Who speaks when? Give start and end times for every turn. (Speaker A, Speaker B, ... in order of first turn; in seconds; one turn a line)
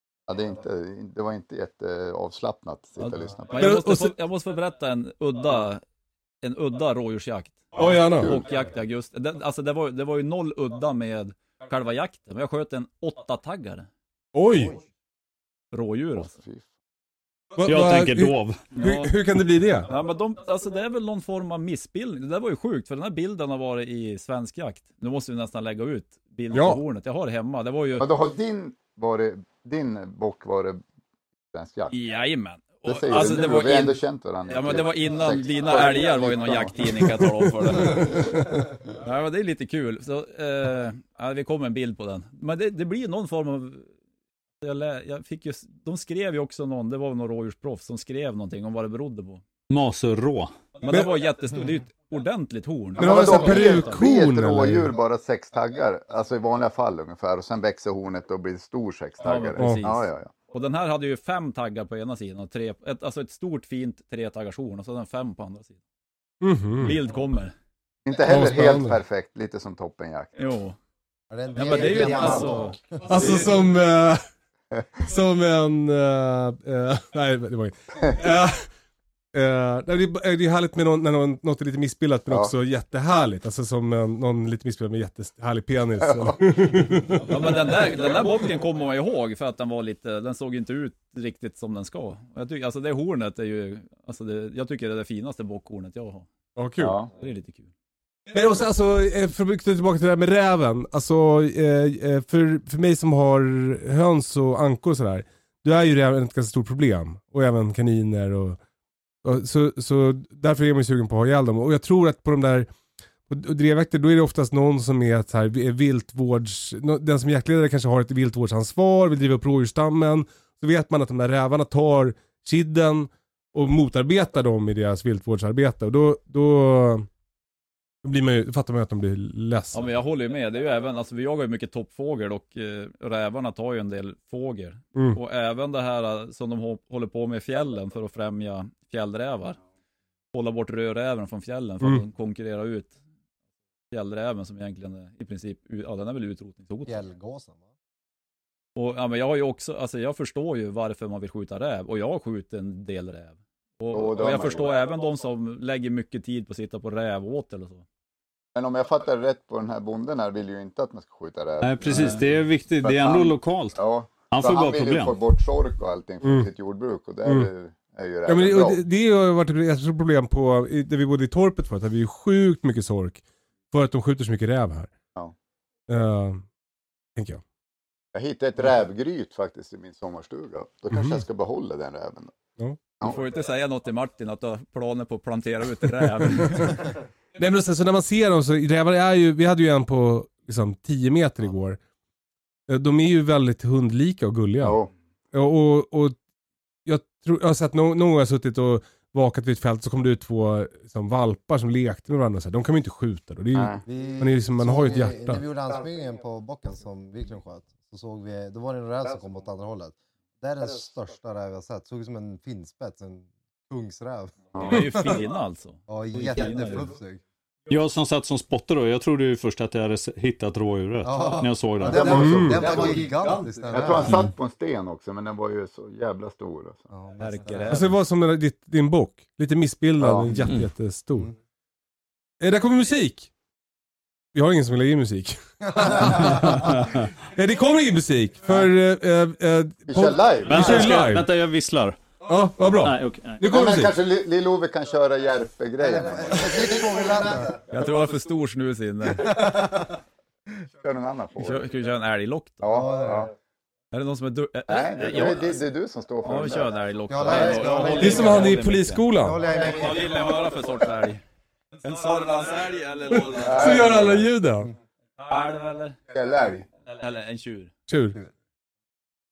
Speaker A: 0.3-3.8
Speaker B: 3.0-5.8
Speaker C: 3.6-4.2
Speaker B: 6.4-13.9
Speaker C: 7.8-8.4
Speaker A: 7.8-8.4
Speaker C: 14.3-14.8
Speaker B: 15.7-16.4
Speaker A: 16.2-16.7
Speaker C: 17.6-19.9
Speaker D: 17.6-18.6
Speaker B: 18.8-19.1
Speaker B: 19.9-28.1
Speaker C: 26.5-26.8
Speaker A: 28.0-30.8
Speaker A: 31.5-31.9
Speaker B: 31.9-38.3
Speaker A: 32.9-37.3
Speaker B: 38.9-43.9
Speaker B: 44.6-49.4
Speaker D: 49.7-50.5
Speaker B: 50.8-54.0
Speaker A: 53.0-60.3
Speaker C: 53.0-54.9
Speaker B: 59.2-65.8
Speaker C: 59.6-59.8
Speaker C: 66.4-67.0
Speaker B: 66.8-67.5
Speaker A: 68.0-70.3
Speaker C: 68.3-69.0
Speaker B: 70.4-70.8
Speaker E: 71.3-73.1
Speaker B: 71.5-73.4
Speaker C: 73.1-74.2
Speaker C: 75.0-78.7
Speaker C: 79.3-87.3
Speaker A: 86.0-87.2
Speaker B: 87.3-96.3
Speaker C: 96.6-97.0
Speaker A: 96.8-97.1
Speaker B: 97.2-97.7
Speaker C: 98.3-108.6
Speaker C: 109.2-112.7
Speaker C: 113.3-127.1
Speaker C: 128.0-129.9
Speaker B: 129.7-139.6
Speaker B: 140.3-143.0
Speaker B: 143.9-147.0
Speaker E: 146.9-147.7
Speaker B: 148.8-157.8
Speaker A: 153.9-154.8
Speaker A: 158.6-168.8
Speaker D: 161.6-165.2
Speaker B: 161.9-162.2
Speaker C: 166.2-166.5
Speaker C: 167.2-167.5
Speaker C: 168.3-174.9
Speaker C: 175.9-176.4
Speaker C: 177.2-177.4
Speaker A: 178.1-182.3
Speaker C: 180.9-181.2
Speaker B: 183.0-186.9
Speaker C: 187.4-191.8
Speaker C: 192.7-194.8
Speaker A: 194.6-194.9
Speaker C: 195.3-196.2
Speaker C: 196.8-205.4
Speaker A: 203.5-203.8
Speaker E: 203.9-215.2
Speaker A: 214.6-214.8
Speaker B: 214.6-216.9
Speaker E: 215.9-217.2
Speaker D: 217.7-222.4
Speaker E: 221.0-224.2
Speaker A: 221.9-226.9
Speaker C: 222.1-222.7
Speaker E: 226.9-227.9
Speaker B: 227.2-227.9
Speaker C: 227.7-231.3
Speaker A: 230.0-230.4
Speaker C: 232.4-233.3
Speaker C: 234.3-241.3
Speaker A: 239.9-240.9
Speaker D: 240.5-242.0
Speaker C: 242.3-243.9
Speaker D: 242.8-243.4
Speaker A: 243.4-247.4
Speaker E: 245.8-247.6
Speaker B: 247.7-249.8
Speaker A: 250.8-251.7
Speaker B: 251.4-252.7
Speaker A: 252.6-253.3
Speaker E: 252.7-253.3
Speaker B: 253.9-255.6
Speaker A: 254.7-256.7
Speaker B: 256.2-261.2
Speaker E: 257.1-260.2
Speaker A: 257.3-258.2
Speaker C: 258.0-259.4
Speaker A: 259.6-260.1
Speaker B: 261.8-263.8
Speaker A: 263.4-264.3
Speaker C: 263.6-264.7
Speaker B: 265.2-266.0
Speaker A: 266.1-266.7
Speaker B: 266.9-267.7
Speaker C: 267.9-268.2